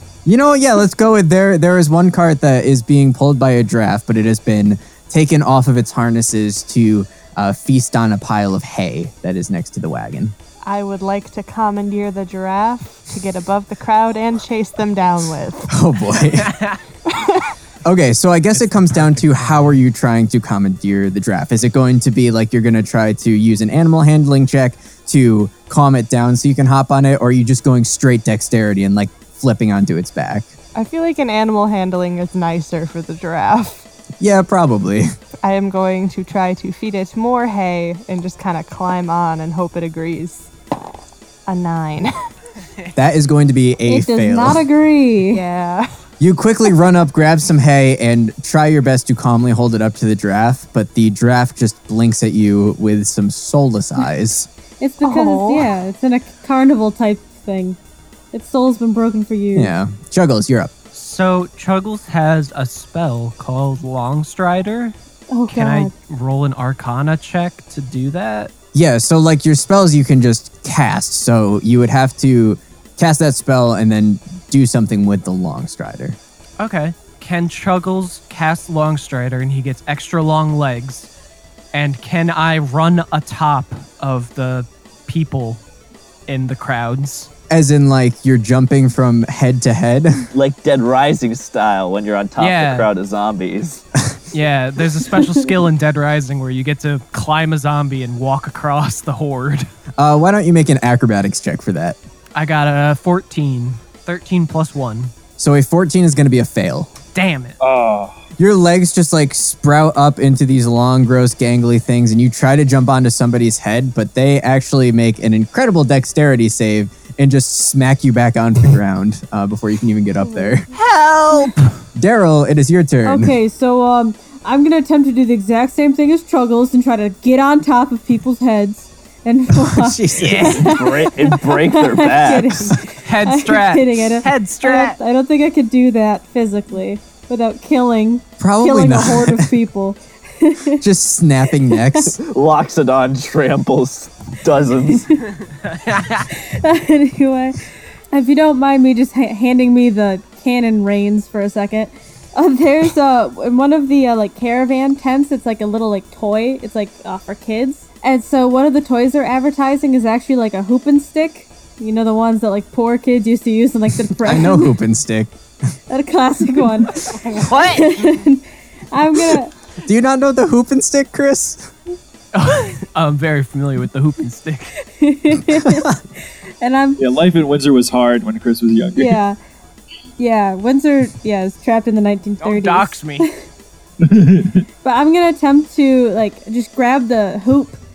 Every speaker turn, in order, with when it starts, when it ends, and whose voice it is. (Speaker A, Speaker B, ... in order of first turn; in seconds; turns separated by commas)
Speaker A: 0.2-10.3, Speaker B: 10.7-15.7, Speaker A: 15.7-16.6, Speaker C: 16.5-16.8, Speaker B: 17.1-17.5, Speaker A: 17.9-30.5, Speaker C: 18.5-19.8, Speaker B: 30.8-33.9, Speaker A: 34.2-35.1, Speaker B: 35.4-40.5, Speaker B: 41.5-42.1, Speaker A: 43.0-44.6, Speaker D: 43.9-45.4, Speaker B: 45.3-45.9, Speaker A: 46.2-54.5, Speaker D: 54.8-57.8, Speaker B: 55.0-55.7, Speaker D: 58.3-59.7, Speaker A: 59.5-60.7, Speaker C: 60.9-65.0, Speaker D: 65.3-65.9, Speaker C: 65.5-68.5, Speaker A: 68.7-76.2, Speaker C: 76.6-81.1, Speaker C: 81.7-85.6, Speaker C: 86.3-87.3, Speaker A: 87.5-90.3, Speaker E: 90.3-93.8, Speaker C: 92.4-92.9, Speaker C: 94.3-99.7, Speaker A: 100.0-102.0, Speaker C: 102.3-105.1, Speaker A: 105.4-106.9, Speaker C: 107.2-107.6, Speaker F: 107.6-108.2, Speaker A: 108.4-120.7, Speaker C: 120.7-121.7, Speaker A: 122.0-123.3, Speaker D: 123.0-140.8, Speaker A: 129.5-130.7, Speaker C: 130.2-130.8, Speaker E: 130.5-132.7, Speaker C: 133.0-135.0, Speaker A: 138.4-139.5, Speaker A: 140.8-142.2, Speaker E: 142.2-145.1, Speaker C: 145.7-146.3, Speaker D: 146.3-147.6, Speaker D: 148.1-164.8, Speaker A: 164.2-165.3, Speaker D: 165.9-169.5, Speaker C: 167.0-168.2, Speaker A: 169.8-171.7, Speaker C: 172.3-174.8, Speaker D: 175.0-175.9, Speaker D: 176.6-177.0, Speaker F: 177.0-179.2, Speaker D: 179.0-179.4, Speaker D: 180.2-183.3, Speaker C: 182.4-183.3, Speaker F: 184.0-184.7, Speaker D: 184.8-187.8